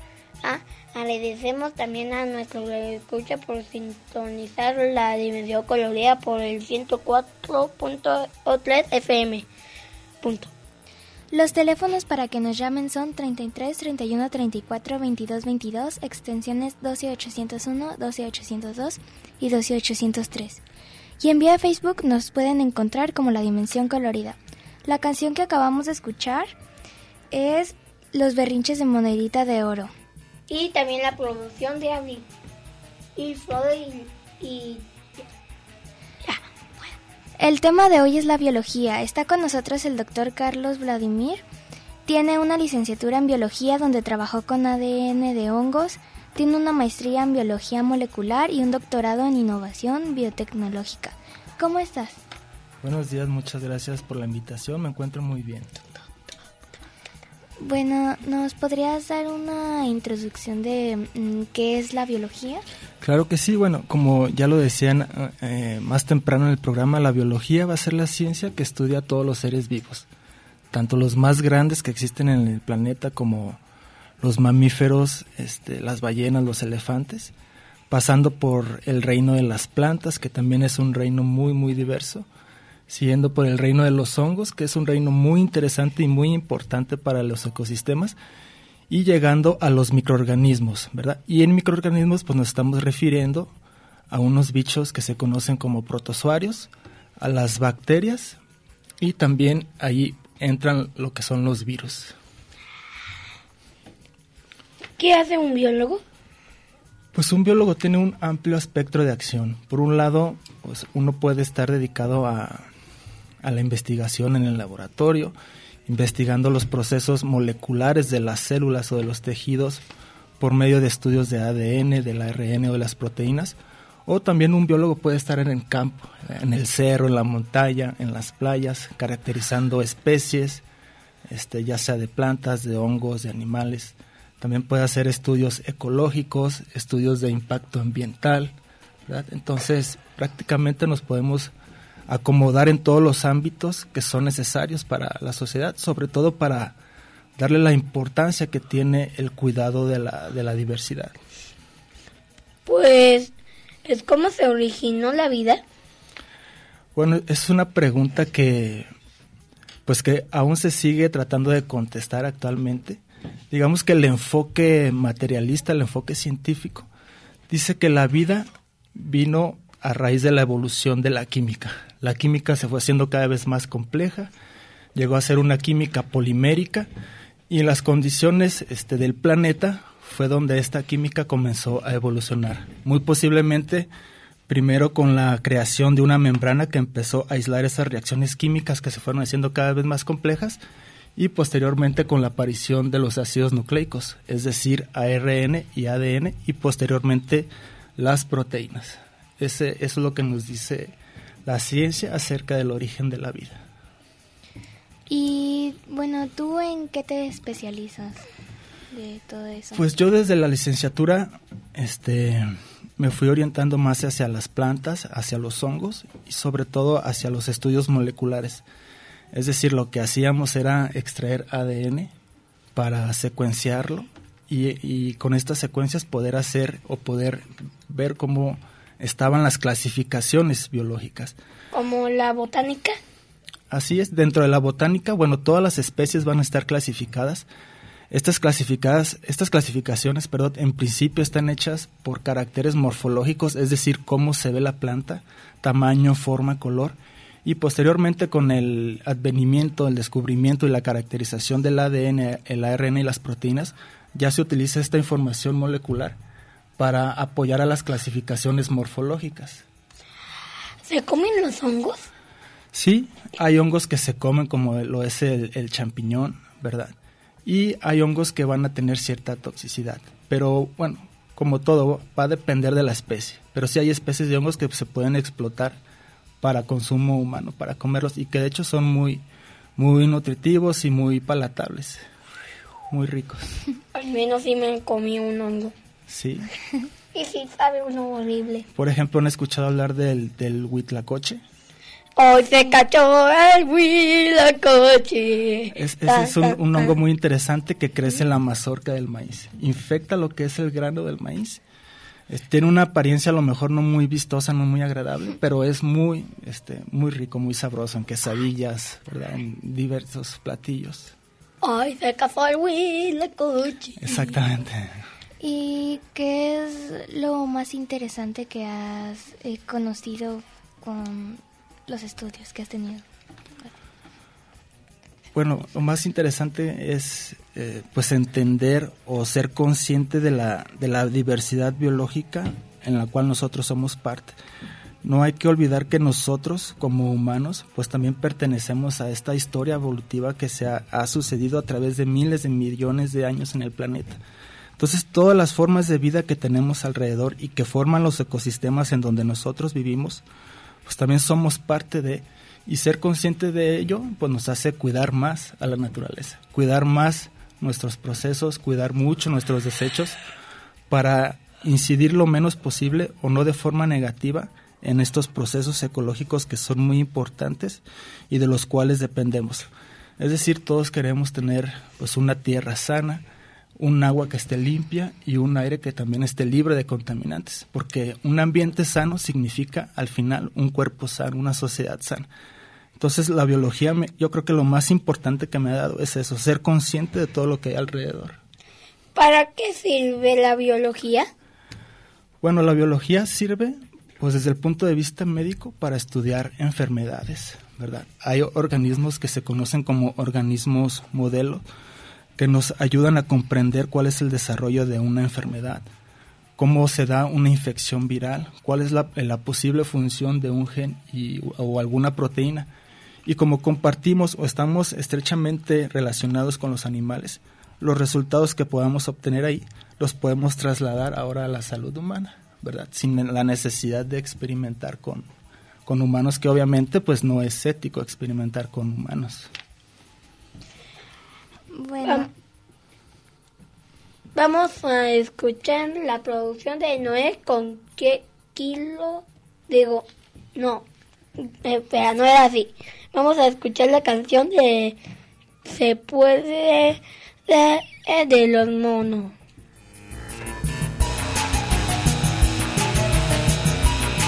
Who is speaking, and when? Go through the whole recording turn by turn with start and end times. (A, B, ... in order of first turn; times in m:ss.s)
0:00.4-0:09.5 A
0:10.2-0:10.5 A
0:11.3-0:20.6 B
0:21.2-0:26.5 B
0:27.3-0:29.9 B
0:30.5-0:32.2 A
0:33.2-0:34.8 A
0:37.4-0:41.4 B
0:42.0-0:52.2 B
0:52.8-0:56.0 C
0:57.6-1:02.6 B
1:03.0-1:10.1 C
1:10.7-1:13.6 C
1:14.2-1:17.3 C
1:17.9-1:22.3 C
1:22.9-1:28.2 C
1:28.9-1:33.5 C
1:34.1-1:38.4 C
1:39.0-1:42.1 C
1:45.0-1:46.0 A
1:47.1-1:52.7 C
1:53.4-1:55.3 C
1:55.8-1:59.8 C
2:00.4-2:10.6 C
2:11.3-2:18.5 C
2:19.1-2:21.5 C
2:22.1-2:26.8 C
2:27.4-2:31.2 C
2:32.6-2:33.3 A
2:33.8-2:35.6 A
2:36.9-2:38.9 C
2:39.8-2:46.9 C
2:47.5-2:54.3 C
2:54.9-2:56.9 C
2:57.5-3:03.9 C
3:04.5-3:10.6 C
3:11.2-3:23.6 C
3:25.1-3:28.2 B
3:28.9-3:29.8 B
3:29.7-3:38.6 C
3:39.3-3:42.1 C
3:42.7-3:51.4 C
3:51.7-3:53.0 A
3:53.7-3:57.5 C
3:58.1-4:16.2 C
4:16.8-4:19.6 C
4:20.8-4:22.0 A
4:22.7-4:35.8 C
4:36.4-4:39.2 C
4:39.8-4:42.0 C
4:42.9-4:43.6 C
4:43.9-4:45.7 A
4:46.1-4:46.5 C
4:47.1-4:48.6 A
4:48.7-4:51.4 C
4:52.2-4:56.9 A
4:55.7-5:01.6 C
5:02.3-5:11.1 C
5:11.6-5:14.3 A
5:14.0-5:14.9 C
5:15.4-5:23.0 B
5:25.3-5:34.4 C
5:35.0-5:44.2 C
5:44.8-5:50.2 C
5:50.8-6:00.2 C
6:00.9-6:13.2 C
6:13.8-6:22.3 C
6:23.0-6:28.4 C
6:29.1-6:31.3 A
6:32.4-6:41.6 C
6:42.4-6:45.9 C
6:46.6-6:52.7 C
6:53.2-7:05.3 C
7:05.8-7:09.5 C
7:11.7-7:12.3 B
7:14.3-7:20.8 A
7:21.4-7:25.0 A
7:25.6-7:29.3 A